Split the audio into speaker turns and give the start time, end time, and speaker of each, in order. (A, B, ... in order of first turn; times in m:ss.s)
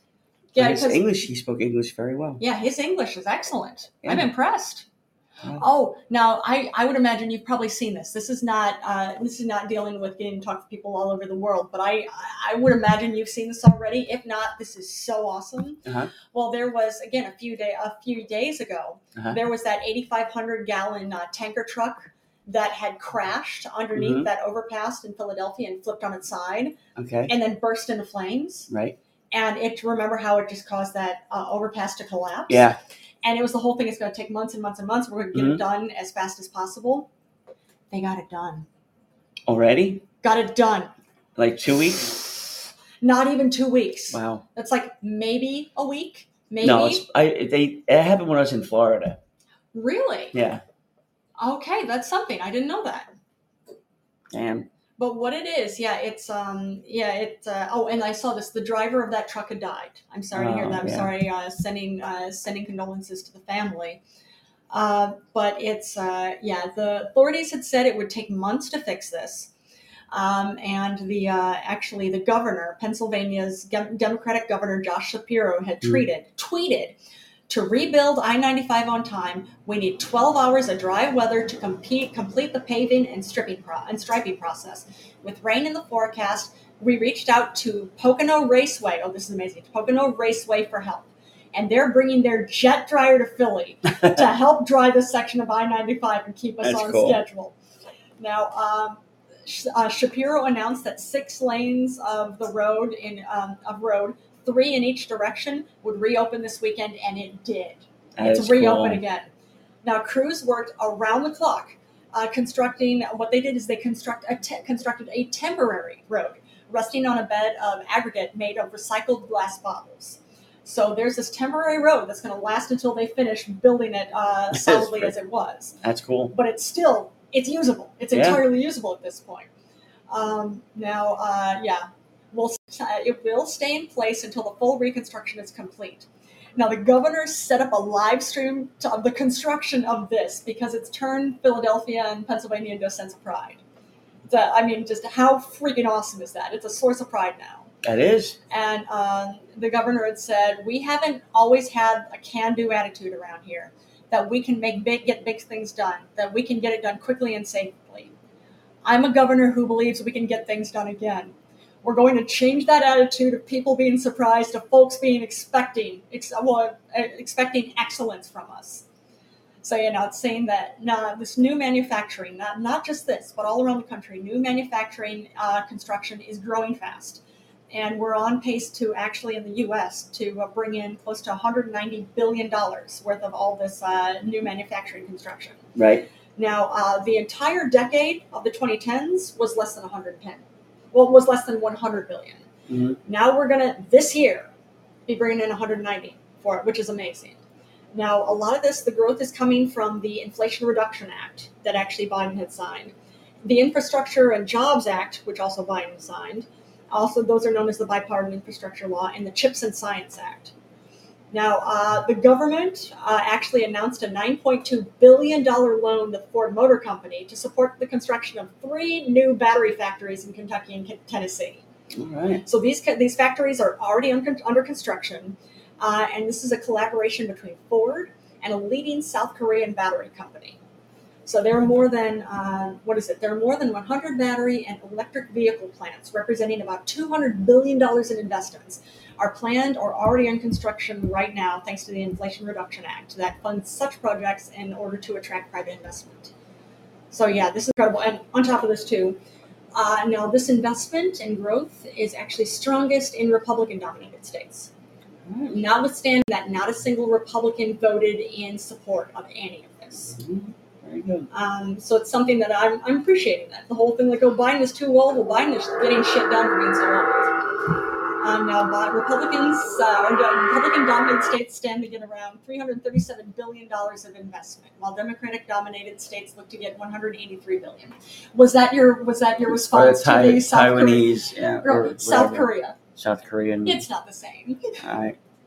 0:00.5-0:01.0 A
0:00.6-0:02.4 B
0:02.4-0:04.8 A
0:04.0-0:04.3 B
0:05.6-0:26.8 A
0:15.8-0:16.1 B
0:23.9-0:24.3 B
0:27.0-0:27.3 B
0:27.3-0:28.7 A
0:28.7-0:29.0 B
0:29.3-0:32.7 A
0:32.5-0:32.8 B
0:33.2-0:37.1 A
0:35.3-0:35.6 B
0:37.9-0:38.7 A
0:39.5-0:40.0 B
0:40.2-0:40.9 A
0:41.4-0:42.3 B
0:43.0-0:47.0 A
0:44.1-0:44.4 B
0:46.6-0:49.2 B
0:49.7-0:50.4 A
0:50.3-0:50.6 B
0:51.4-0:53.1 A
0:54.3-0:54.7 B
0:55.0-1:04.0 A
1:00.3-1:01.1 B
1:04.7-1:09.5 A
1:10.1-1:17.0 A
1:17.5-1:37.6 A
1:36.6-1:37.2 B
1:38.2-1:49.3 A
1:48.2-1:49.0 B
1:49.8-2:05.8 A
2:04.5-2:05.1 B
2:05.8-2:06.3 B
2:06.3-2:09.5 A
2:08.1-2:08.4 B
2:10.1-2:23.6 A
2:24.3-2:27.7 A
2:27.8-2:28.4 B
2:28.5-2:38.1 A
2:38.8-2:48.8 A
2:49.6-3:05.7 A
3:05.7-3:06.1 B
3:06.4-3:12.4 A
3:12.7-3:13.0 B
3:13.0-3:14.5 A
3:15.1-3:17.4 A
3:17.9-3:30.5 A
3:31.3-3:41.6 A
3:41.9-3:42.4 B
3:42.4-3:50.6 A
3:51.2-4:06.3 A
4:07.1-4:09.2 A
4:09.7-4:14.7 A
4:15.2-4:15.6 B
4:15.5-4:20.2 A
4:20.1-4:21.3 B
4:21.3-4:27.4 A
4:28.2-4:41.1 A
4:39.5-4:43.8 B
4:41.6-4:42.8 A
4:43.6-4:44.8 A
4:44.8-4:45.2 B